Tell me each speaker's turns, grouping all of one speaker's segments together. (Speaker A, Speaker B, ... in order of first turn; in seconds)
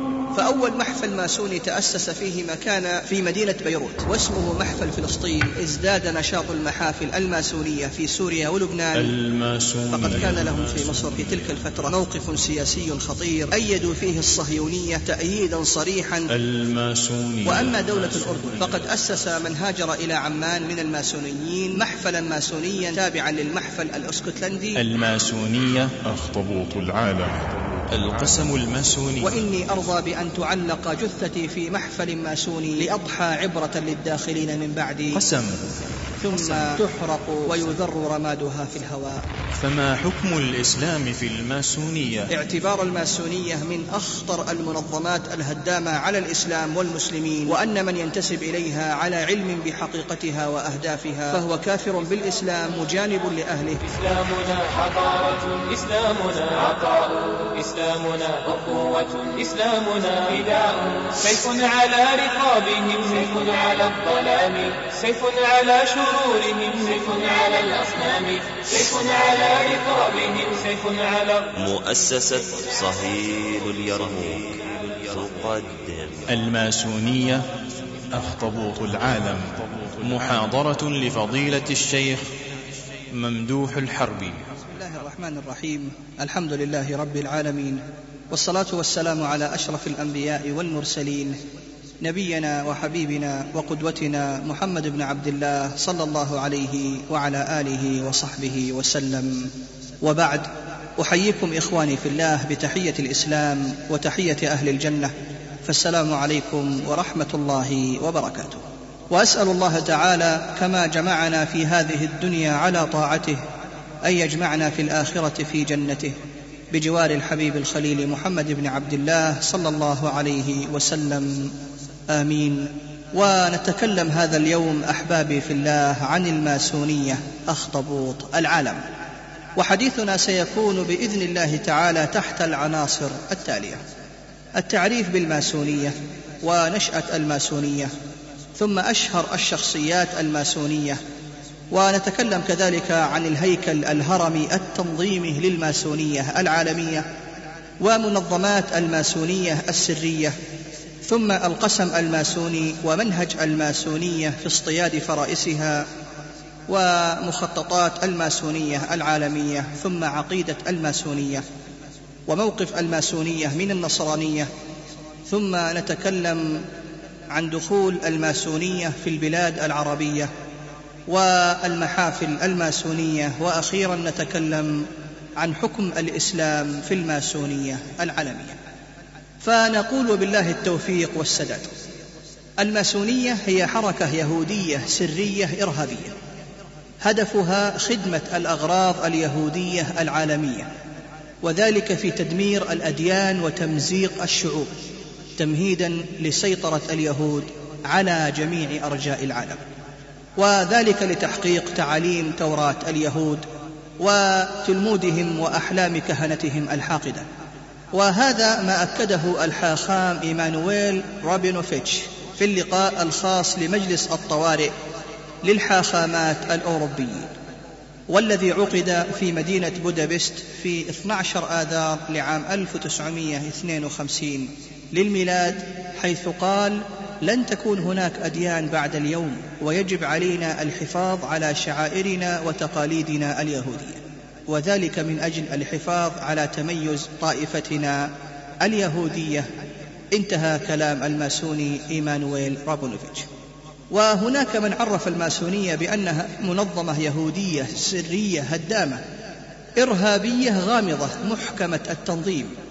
Speaker A: 0.3-9.1, 9.9-16.3, 17.4-24.8, 29.2-35.2, 36.2-39.2, 42.3-53.8, 84.6-91.4, 92.0-99.5, 100.0-105.1, 105.6-113.4, 114.0-116.1, 116.7-121.5, 122.1-128.8, 129.6-133.8, 134.5-137.9, 138.6-141.0, 141.7-147.1, 147.8-150.3, 151.1-155.8, 156.7-161.4, 162.3-164.5, 165.3-166.6, 167.3-170.3, 171.1-178.6, 179.4-181.7, 182.6-186.1, 187.0-190.7, 191.4-194.7, 195.4-199.6, 200.4-203.4, 204.0-207.2, 207.9-214.7, 215.4-217.3, 218.1-239.5, 240.1-243.3, 243.9-249.0, 249.8-252.5
Speaker B: 8.9-11.5, 16.3-18.9, 24.7-29.4, 35.1-35.7, 36.3-36.8, 39.5-42.3, 76.3-77.5, 78.1-82.2, 83.1-84.4
Speaker C: 53.8-71.5
Speaker D: 71.5-76.3